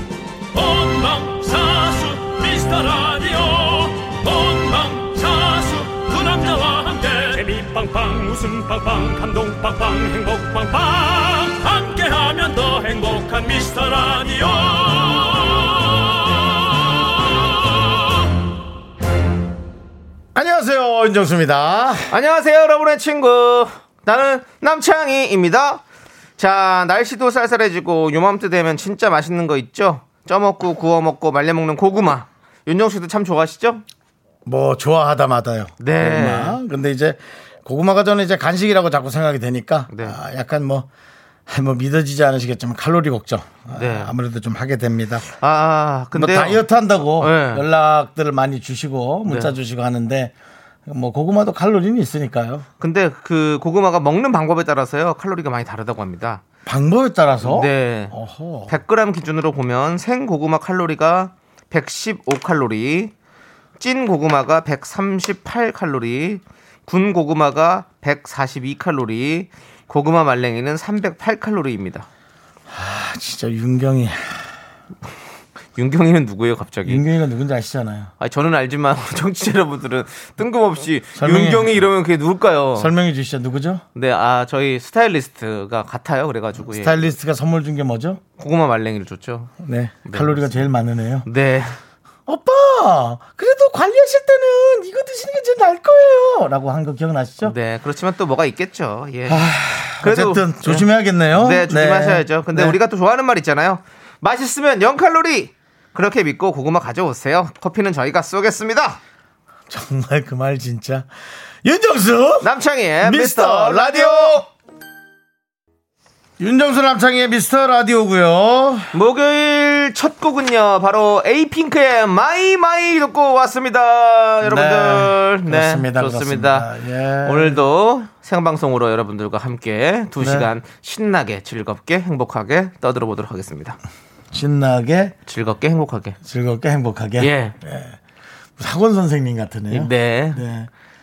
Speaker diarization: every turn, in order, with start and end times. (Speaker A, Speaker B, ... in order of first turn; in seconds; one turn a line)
Speaker A: 0.5-17.8
Speaker B: 20.4-22.1
Speaker C: 22.1-25.8
Speaker C: 26.4-33.8
Speaker B: 34.5-40.9
Speaker C: 35.8-36.6
Speaker C: 39.9-40.2
Speaker B: 41.5-45.3
Speaker C: 43.8-44.1
Speaker C: 45.4-46.6
Speaker B: 46.1-50.3
Speaker C: 47.2-47.6
Speaker C: 49.3-49.6
Speaker B: 50.9-52.7
Speaker C: 52.8-56.4
Speaker B: 56.7-58.7
Speaker C: 57.4-58.1
Speaker C: 58.7-63.1
Speaker C: 63.8-72.1
Speaker B: 72.7-74.5
Speaker C: 75.8-77.0
Speaker B: 76.8-78.1
Speaker C: 78.2-82.9
Speaker B: 81.2-81.8
Speaker B: 82.8-83.8
Speaker C: 84.0-87.1
Speaker B: 86.6-88.2
Speaker C: 88.4-89.5
Speaker B: 89.6-91.3
Speaker C: 90.1-90.7
Speaker C: 91.3-91.8
Speaker B: 92.3-97.5
Speaker C: 97.4-109.0
Speaker B: 99.3-102.8
Speaker B: 109.7-111.1
Speaker B: 111.6-112.5
Speaker C: 112.4-114.4
Speaker B: 113.0-114.5
Speaker B: 116.4-118.9
Speaker C: 118.9-126.7
Speaker B: 124.4-127.6
Speaker C: 127.2-133.8
Speaker B: 130.2-130.5
Speaker B: 134.3-135.2
Speaker C: 135.3-136.2
Speaker B: 136.2-138.0
Speaker C: 137.2-137.6
Speaker B: 138.6-140.7
Speaker C: 139.7-140.4